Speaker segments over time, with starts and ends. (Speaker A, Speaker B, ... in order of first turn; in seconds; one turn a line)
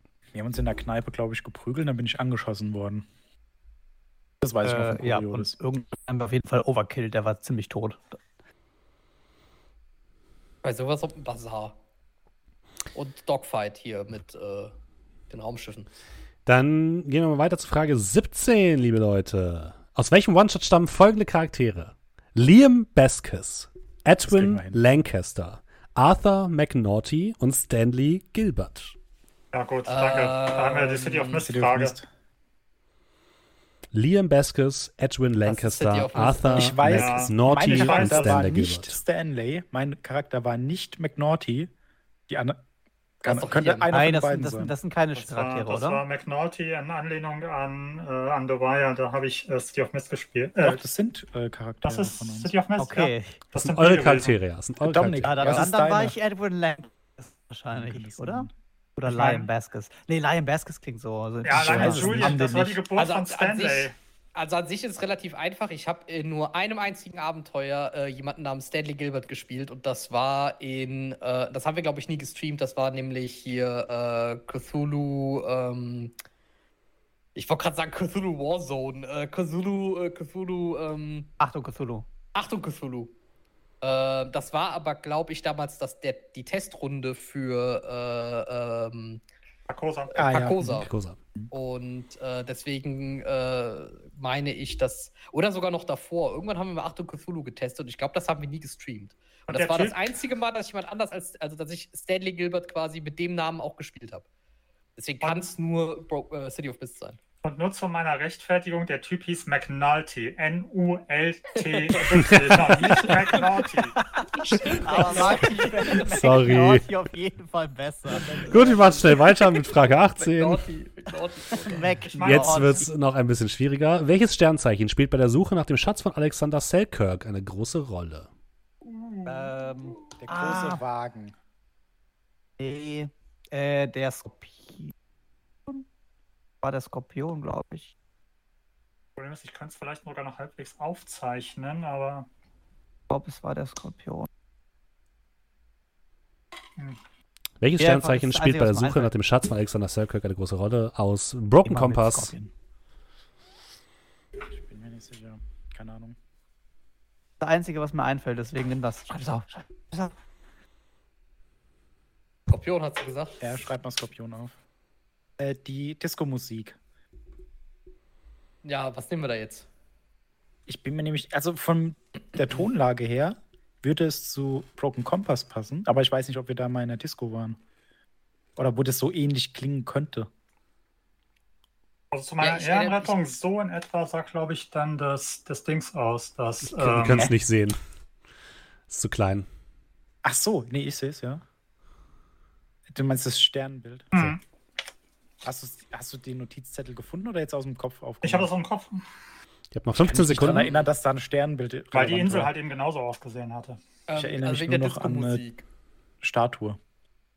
Speaker A: 0.3-3.1
Speaker A: 4.4-5.6
Speaker B: 4.6-8.2
Speaker C: 10.6-11.8
Speaker C: 12.9-14.7
Speaker C: 15.3-15.9
Speaker D: 16.5-28.9
Speaker A: 24.2-24.8
Speaker E: 29.5-32.0
Speaker C: 29.9-31.5
Speaker A: 31.4-32.1
Speaker D: 33.9-39.0
Speaker C: 35.5-36.8
Speaker A: 36.5-41.7
Speaker E: 36.9-38.5
Speaker A: 42.3-42.6
Speaker C: 43.2-43.9
Speaker A: 43.2-44.7
Speaker B: 43.9-46.0
Speaker E: 45.1-50.8
Speaker A: 50.6-52.5
Speaker E: 51.9-54.4
Speaker B: 52.8-53.4
Speaker D: 53.6-55.7
Speaker A: 54.8-56.2
Speaker B: 55.2-62.8
Speaker A: 57.7-58.5
Speaker E: 59.1-59.4
Speaker E: 61.4-63.9
Speaker A: 61.5-62.7
Speaker C: 63.0-76.1
Speaker C: 77.3-81.3
Speaker B: 81.4-82.0
Speaker C: 82.3-83.1
Speaker C: 83.8-89.2
Speaker E: 89.7-90.3
Speaker A: 90.2-91.5
Speaker C: 90.2-90.9
Speaker D: 90.8-91.2
Speaker C: 91.5-104.2
Speaker E: 99.5-100.0
Speaker C: 105.0-107.2
Speaker E: 105.2-105.5
Speaker E: 107.4-114.0
Speaker C: 111.6-113.1
Speaker B: 114.0-119.1
Speaker C: 114.5-116.1
Speaker E: 115.0-115.5
Speaker D: 116.0-116.9
Speaker A: 118.3-119.0
Speaker D: 118.5-120.6
Speaker C: 120.2-122.0
Speaker B: 121.5-122.9
Speaker E: 122.0-122.9
Speaker D: 122.2-128.3
Speaker E: 128.8-129.6
Speaker B: 129.3-130.8
Speaker A: 130.2-131.3
Speaker B: 132.6-134.9
Speaker B: 136.6-137.9
Speaker E: 139.2-142.3
Speaker B: 143.1-144.3
Speaker D: 147.6-152.3
Speaker B: 147.8-149.1
Speaker B: 151.7-152.5
Speaker A: 154.5-156.2
Speaker B: 157.4-160.1
Speaker C: 162.5-163.4
Speaker A: 163.4-164.6
Speaker A: 165.4-166.8
Speaker C: 168.6-169.7
Speaker A: 170.7-177.6
Speaker A: 178.6-180.3
Speaker E: 182.1-187.3
Speaker C: 182.4-183.2
Speaker D: 186.6-187.8
Speaker D: 188.9-189.5
Speaker A: 190.2-191.4
Speaker A: 192.9-194.3
Speaker E: 194.1-194.4
Speaker A: 195.4-198.5
Speaker E: 198.2-199.0
Speaker D: 199.7-200.8
Speaker A: 200.0-202.5
Speaker E: 201.9-203.8
Speaker C: 204.1-205.7
Speaker A: 204.1-205.4
Speaker A: 206.2-206.8